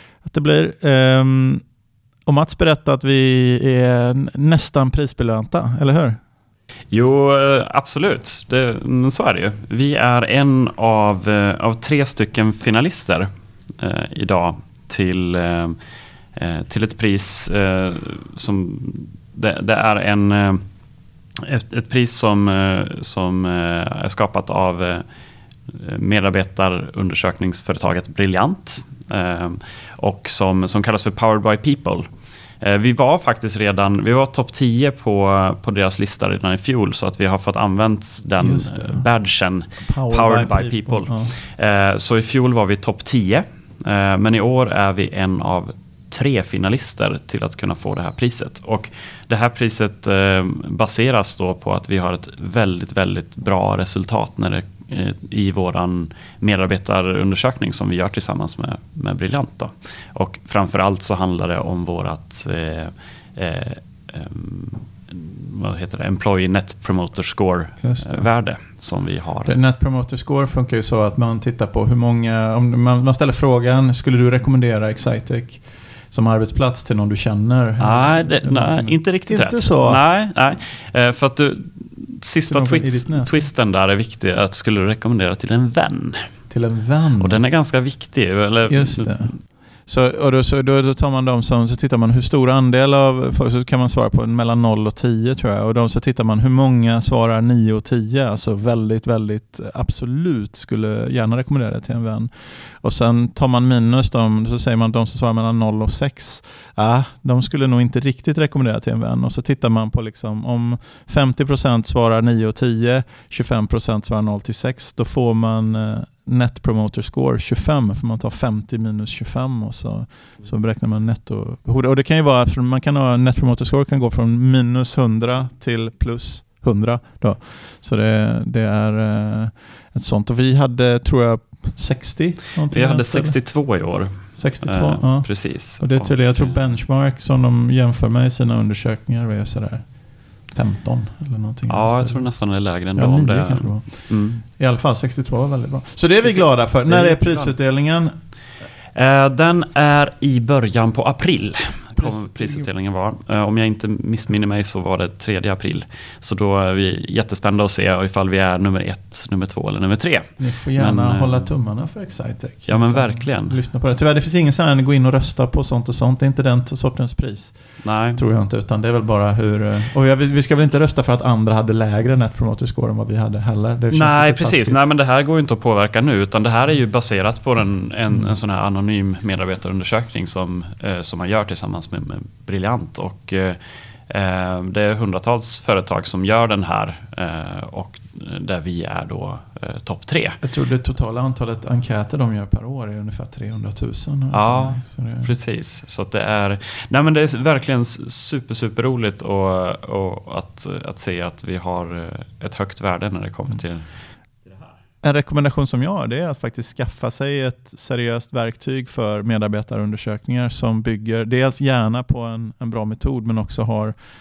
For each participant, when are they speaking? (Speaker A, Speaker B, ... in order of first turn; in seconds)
Speaker A: 0.2-1.6, 2.2-6.2, 38.4-39.1, 39.8-41.3, 67.8-68.3, 69.4-80.0, 82.5-83.3, 86.5-87.4, 88.7-133.4, 134.3-148.1, 152.0-152.7, 160.4-174.8, 190.4-195.3, 205.0-213.9
Speaker B: 6.9-13.3, 13.8-15.7, 16.4-20.6, 21.4-25.0, 25.7-32.1, 32.6-69.5, 77.8-86.2, 87.2-89.4, 132.7-136.7, 141.7-144.4, 146.2-147.6, 148.9-161.5, 162.7-163.6, 167.8-168.2, 173.9-183.6, 184.1-190.4, 194.3-203.9